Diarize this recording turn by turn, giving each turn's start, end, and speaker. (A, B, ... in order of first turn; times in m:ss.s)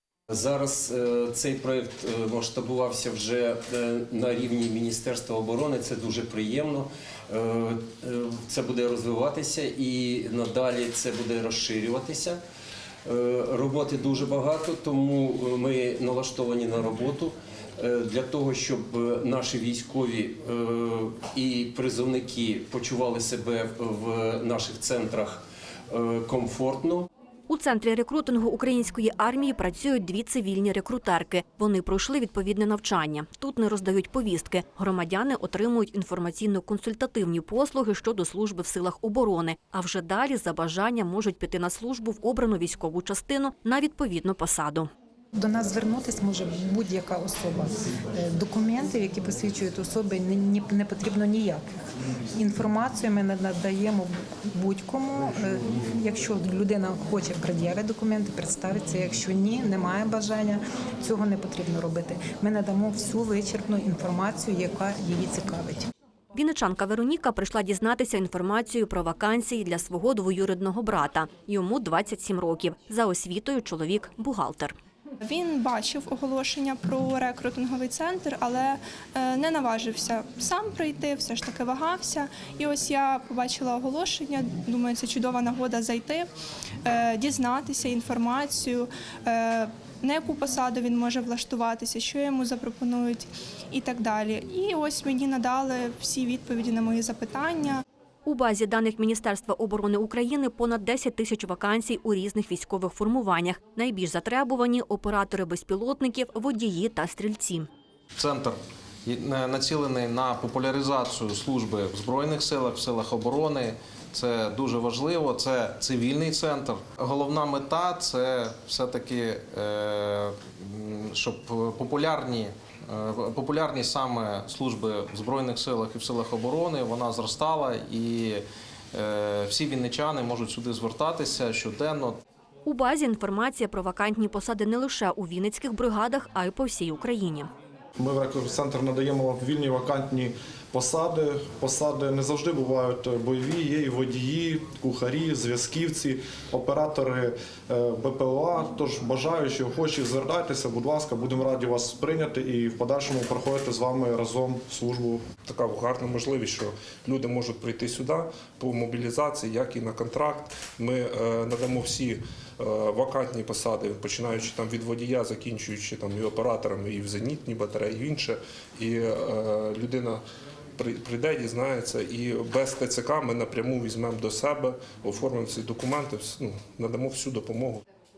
0:00.3-0:12.4 A
0:13.0-0:27.1 A
0:27.5-0:44.9 B
0:45.3-0:51.8 C
0:52.3-1:05.9 C
1:06.3-1:14.7 B
1:15.2-1:26.3 D
1:26.8-1:37.8 D
1:38.2-1:47.7 B
1:48.2-2:12.2 E
2:12.6-2:17.5 B
2:18.0-2:35.2 F
2:35.4-2:50.2 G
2:50.8-2:57.8 G